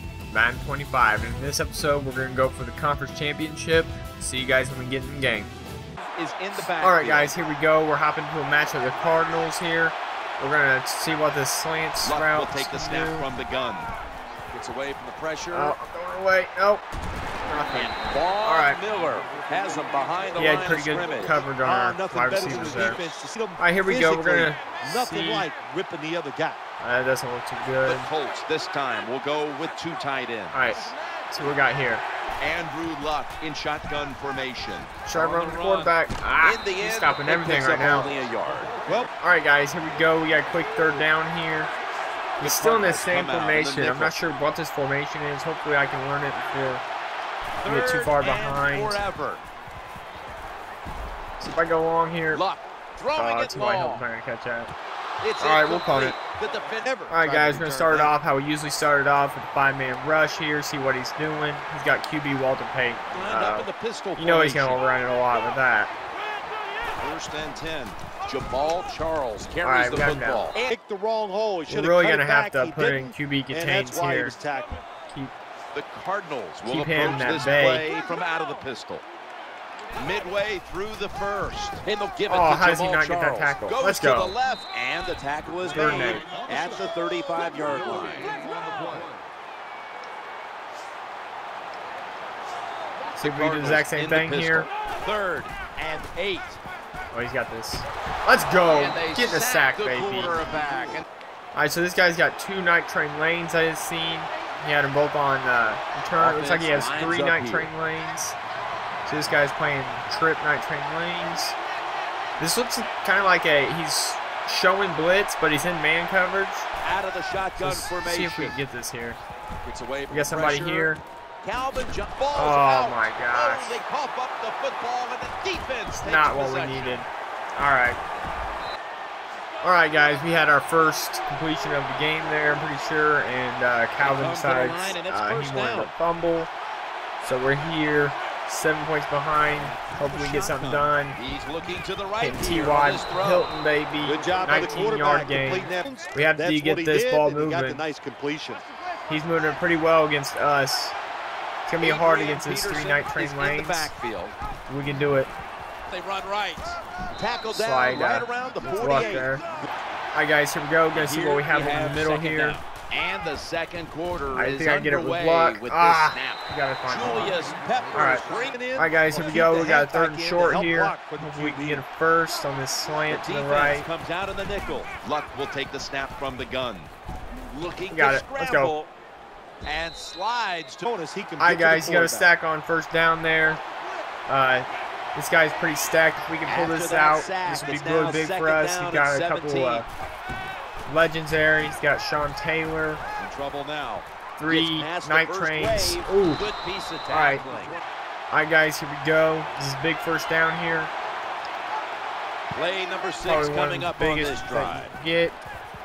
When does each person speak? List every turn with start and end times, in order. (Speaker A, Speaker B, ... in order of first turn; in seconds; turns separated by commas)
Speaker A: 0.3-5.5, Speaker B: 6.2-7.3, Speaker A: 6.6-13.3, Speaker B: 12.0-13.9, Speaker B: 14.5-15.8, Speaker A: 15.5-16.8, Speaker A: 17.4-18.8, Speaker B: 17.7-21.4, Speaker A: 20.4-23.0, Speaker C: 21.6-26.6, Speaker B: 22.4-22.9, Speaker A: 23.6-25.5, Speaker A: 26.8-28.1, Speaker B: 27.8-30.7, Speaker A: 30.5-32.0, Speaker B: 32.4-38.7, Speaker A: 35.0-38.2, Speaker C: 38.9-39.1, Speaker A: 39.2-41.7, Speaker B: 42.4-44.1, Speaker A: 42.4-46.8, Speaker B: 47.6-49.4, Speaker A: 47.6-49.0, Speaker A: 51.4-52.4, Speaker B: 52.3-54.0, Speaker A: 53.1-54.7, Speaker B: 55.2-57.0, Speaker A: 55.4-56.2, Speaker C: 56.8-58.1, Speaker A: 57.1-65.9, Speaker B: 63.1-64.8, Speaker B: 67.0-70.7, Speaker A: 69.6-70.5, Speaker C: 70.7-74.7, Speaker A: 71.7-74.3, Speaker A: 75.1-75.3, Speaker B: 75.7-79.0, Speaker A: 76.7-77.9, Speaker B: 79.9-88.3, Speaker A: 82.3-84.3, Speaker A: 85.6-86.2, Speaker B: 93.1-96.6, Speaker A: 93.2-94.7, Speaker A: 97.1-100.4, Speaker B: 98.7-101.0, Speaker A: 101.5-108.4, Speaker B: 106.2-107.7, Speaker A: 109.0-111.6, Speaker A: 112.4-116.7, Speaker B: 116.8-118.6, Speaker A: 117.6-119.2, Speaker B: 119.6-127.0, Speaker A: 120.1-121.0, Speaker A: 122.3-123.8, Speaker A: 126.0-128.0, Speaker A: 129.6-136.5, Speaker B: 134.0-135.9, Speaker A: 137.2-141.2, Speaker B: 139.9-143.5, Speaker A: 142.2-147.8, Speaker C: 144.0-148.6, Speaker A: 149.1-150.9, Speaker A: 151.7-153.9, Speaker B: 151.8-154.3, Speaker A: 154.7-155.3, Speaker B: 155.9-159.4, Speaker A: 157.5-159.4, Speaker A: 160.1-162.6, Speaker B: 160.9-168.8, Speaker A: 164.3-168.2, Speaker C: 168.5-171.8, Speaker A: 168.8-173.9, Speaker B: 173.1-176.9, Speaker B: 177.5-178.9, Speaker A: 177.9-178.7, Speaker B: 179.6-180.8, Speaker C: 180.8-182.3, Speaker A: 181.4-183.6, Speaker A: 184.3-189.8, Speaker B: 186.4-189.8, Speaker A: 190.9-193.0, Speaker B: 193.2-197.8, Speaker A: 194.4-196.4, Speaker A: 197.1-197.4, Speaker A: 198.3-200.9, Speaker B: 202.5-204.9, Speaker A: 203.2-205.4